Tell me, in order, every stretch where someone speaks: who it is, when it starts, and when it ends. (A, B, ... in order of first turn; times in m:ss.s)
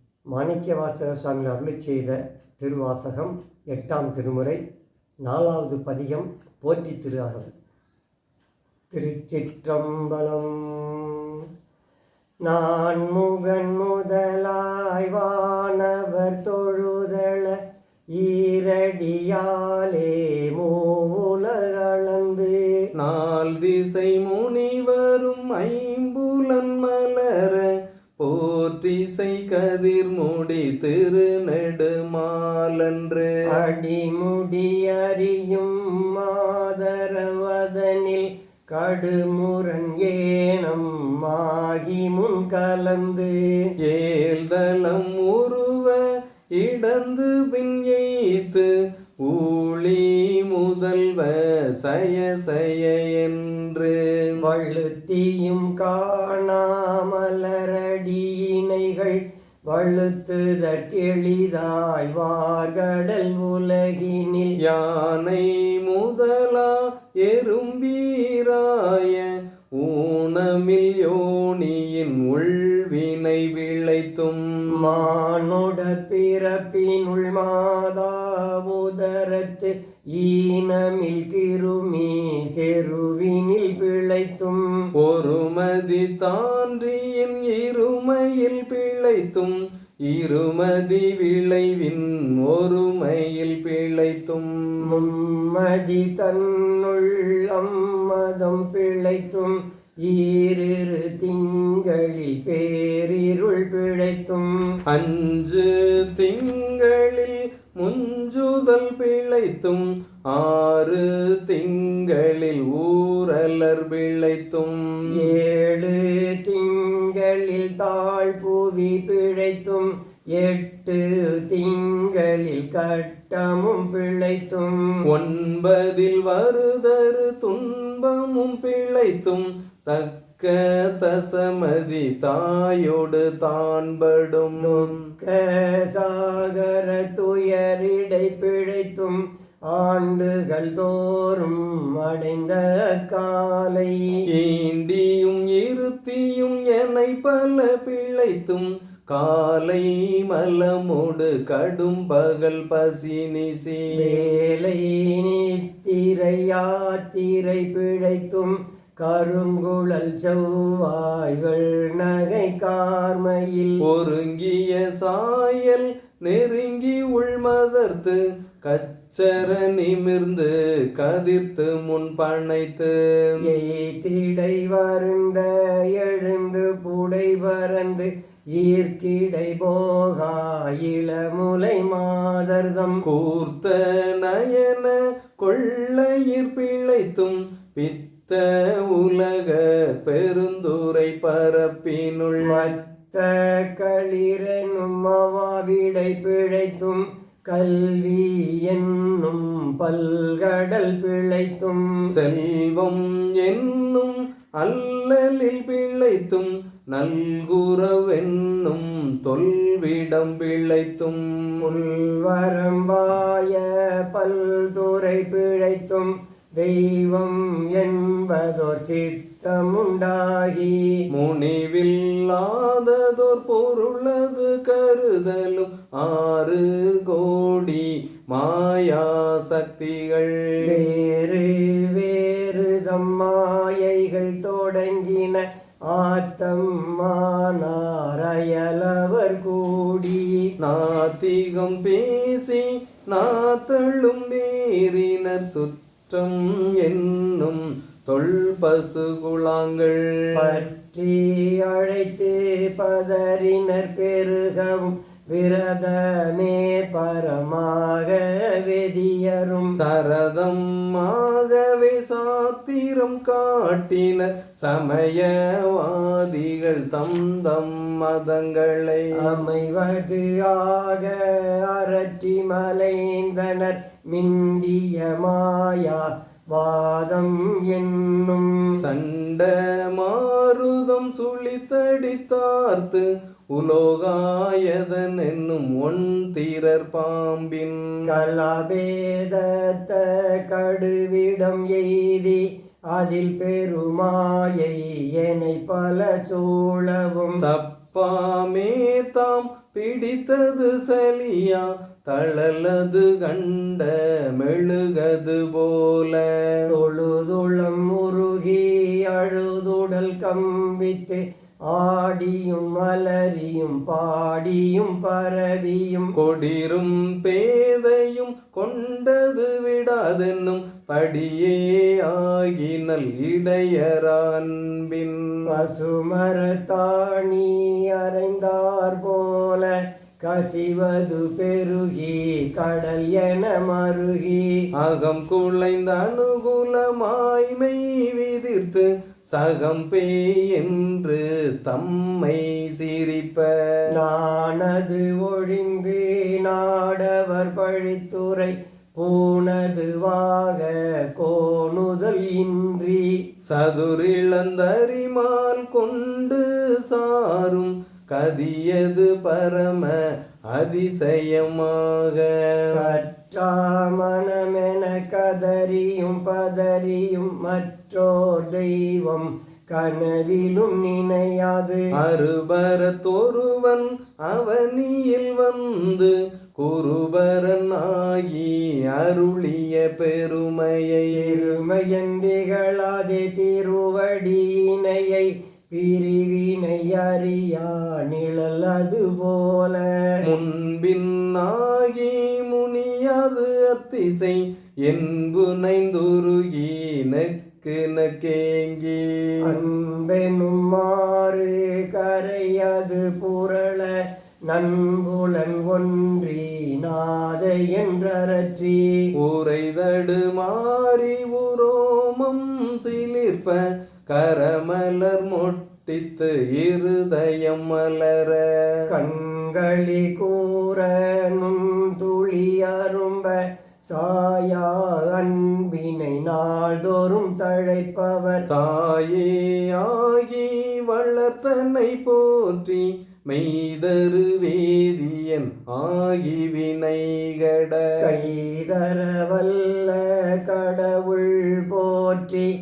0:00.3-0:04.6 A
0:05.2-0:07.5 A
0:08.9-0:11.4 A
0:12.4-0:17.6 A
0:18.1-0:22.5 A
0:22.9-0:33.4 B
0:33.5-0:43.3 A
0:43.8-0:48.7 B
0:49.2-0:54.3 B
0:54.4-0:59.2 A
0:59.7-1:04.6 A
1:04.6-1:14.9 B
1:14.8-1:24.7 A
1:25.0-1:35.0 B
1:34.9-1:44.7 A
1:44.8-1:55.3 B
1:55.2-2:04.8 A
2:05.0-2:15.1 B
2:14.6-2:24.2 A
2:24.3-2:34.2 B
2:34.0-2:43.8 A
2:43.8-2:53.3 B
2:53.4-3:03.0 A
3:03.0-3:12.7 B
3:12.4-3:22.0 A
3:22.1-3:31.6 B
3:31.6-3:40.9 A
3:41.1-3:50.7 B
3:50.6-4:00.4 A
4:00.6-4:10.6 B
4:10.4-4:19.8 A
4:19.8-4:29.4 B
4:29.2-4:38.8 A
4:38.8-4:48.0 B
4:48.1-4:52.4 A
4:52.9-4:57.4 A
4:57.4-5:06.6 B
5:06.7-5:16.1 A
5:16.2-5:25.4 B
5:25.5-5:34.5 A
5:34.8-5:43.8 B
5:43.9-5:53.1 A
5:53.4-6:03.0 B
6:02.7-6:11.8 A
6:12.0-6:21.5 B
6:21.1-6:29.9 A
6:30.2-6:39.6 B
6:39.4-6:44.0 A
6:44.5-6:48.9 A
6:49.2-6:58.8 B
6:58.9-7:08.5 A
7:08.5-7:18.2 B
7:18.0-7:22.5 A